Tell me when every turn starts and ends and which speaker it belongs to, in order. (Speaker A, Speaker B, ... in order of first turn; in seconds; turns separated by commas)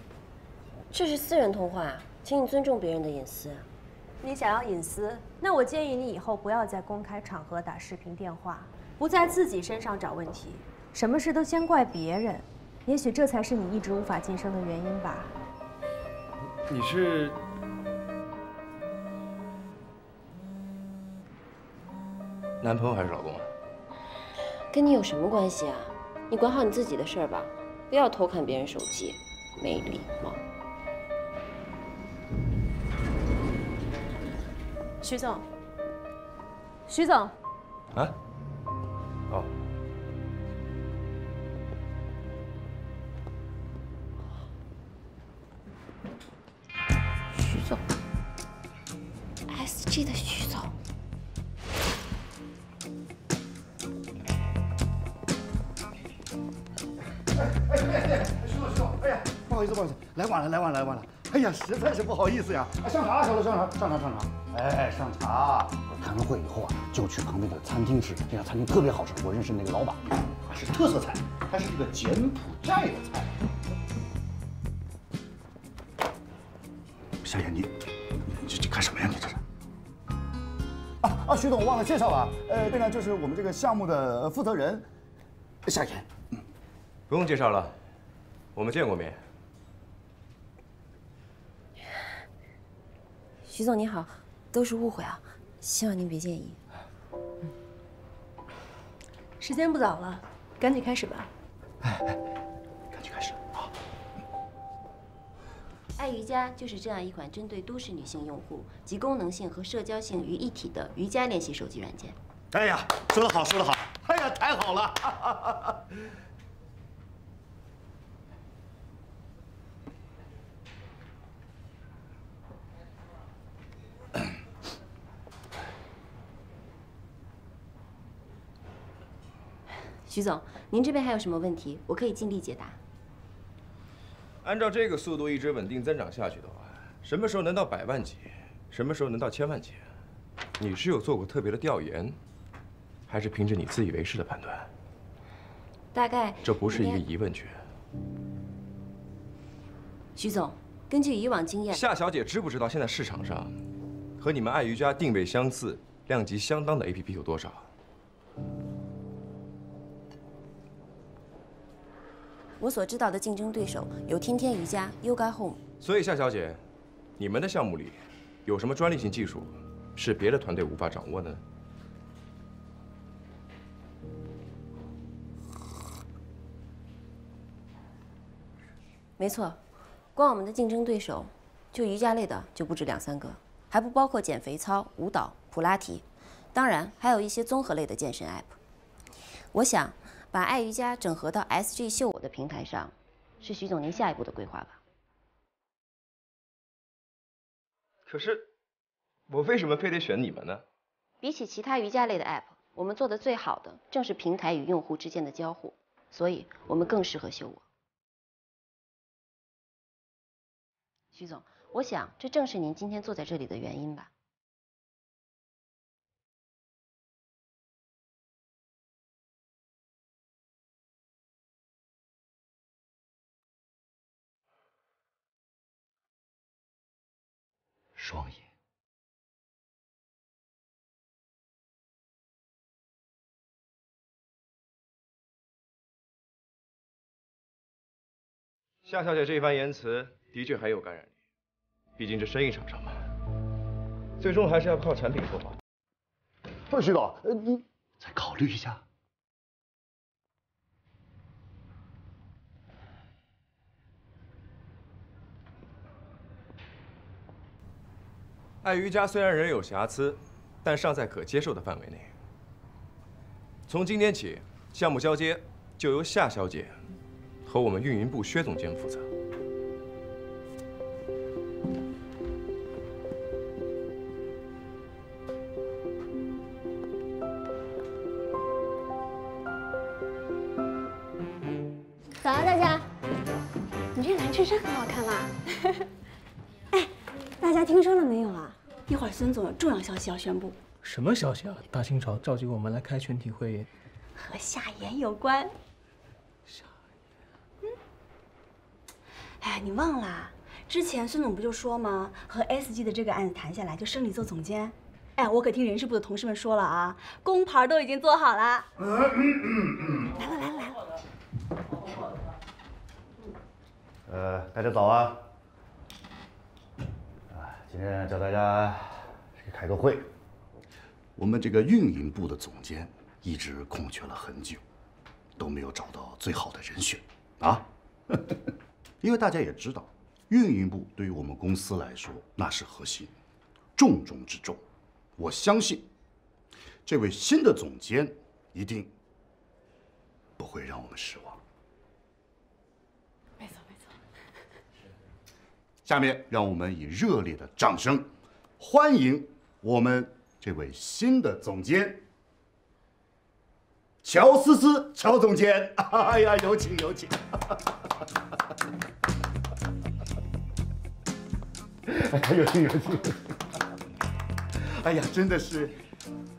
Speaker A: 0.9-3.7, Speaker B: 4.2-15.3, Speaker C: 16.7-17.4, Speaker C: 22.6-23.5, Speaker A: 24.7-30.4, Speaker B: 35.0-35.5, Speaker B: 36.9-37.3, Speaker A: 47.4-47.8, Speaker A: 49.5-50.7, Speaker D: 57.4-73.3, Speaker D: 77.2-79.4, Speaker D: 81.0-84.9, Speaker D: 85.7-86.3, Speaker C: 87.1-87.7, Speaker C: 88.5-89.2, Speaker A: 93.5-96.6, Speaker B: 99.4-101.3, Speaker D: 101.8-102.2, Speaker D: 102.9-103.7, Speaker A: 106.0-112.2, Speaker D: 112.5-115.8, Speaker A: 130.1-132.8, Speaker C: 134.4-139.8, Speaker C: 140.6-142.2, Speaker C: 143.1-144.7, Speaker A: 145.9-147.0, Speaker C: 146.4-147.6, Speaker A: 150.2-151.8, Speaker C: 151.7-153.5, Speaker C: 154.2-157.7, Speaker A: 162.6-165.6, Speaker C: 165.8-166.6, Speaker C: 167.2-171.4, Speaker A: 179.2-179.6, Speaker A: 180.2-188.6, Speaker A: 189.5-194.8, Speaker C: 198.1-198.4, Speaker C: 199.3-200.6, Speaker A: 201.2-207.6, Speaker A: 211.1-214.1, Speaker D: 228.0-228.4, Speaker C: 238.8-241.1, Speaker C: 242.0-243.0, Speaker C: 244.2-245.6, Speaker D: 246.7-248.8, Speaker C: 258.6-262.1, Speaker C: 263.7-266.8, Speaker C: 267.5-269.1, Speaker E: 282.3-282.7, Speaker E: 283.9-285.5, Speaker E: 287.4-290.6, Speaker F: 290.8-293.7, Speaker E: 294.2-295.5, Speaker E: 299.4-308.7, Speaker D: 308.9-310.1, Speaker E: 310.2-310.8, Speaker D: 314.1-315.3, Speaker D: 317.3-320.1, Speaker D: 321.2-324.6, Speaker D: 325.4-328.4, Speaker D: 329.0-333.1, Speaker D: 333.8-334.6, Speaker D: 335.2-335.9, Speaker D: 336.9-338.9, Speaker D: 340.4-341.4, Speaker D: 345.9-352.0, Speaker D: 354.0-357.6, Speaker D: 361.9-363.2, Speaker D: 364.6-365.8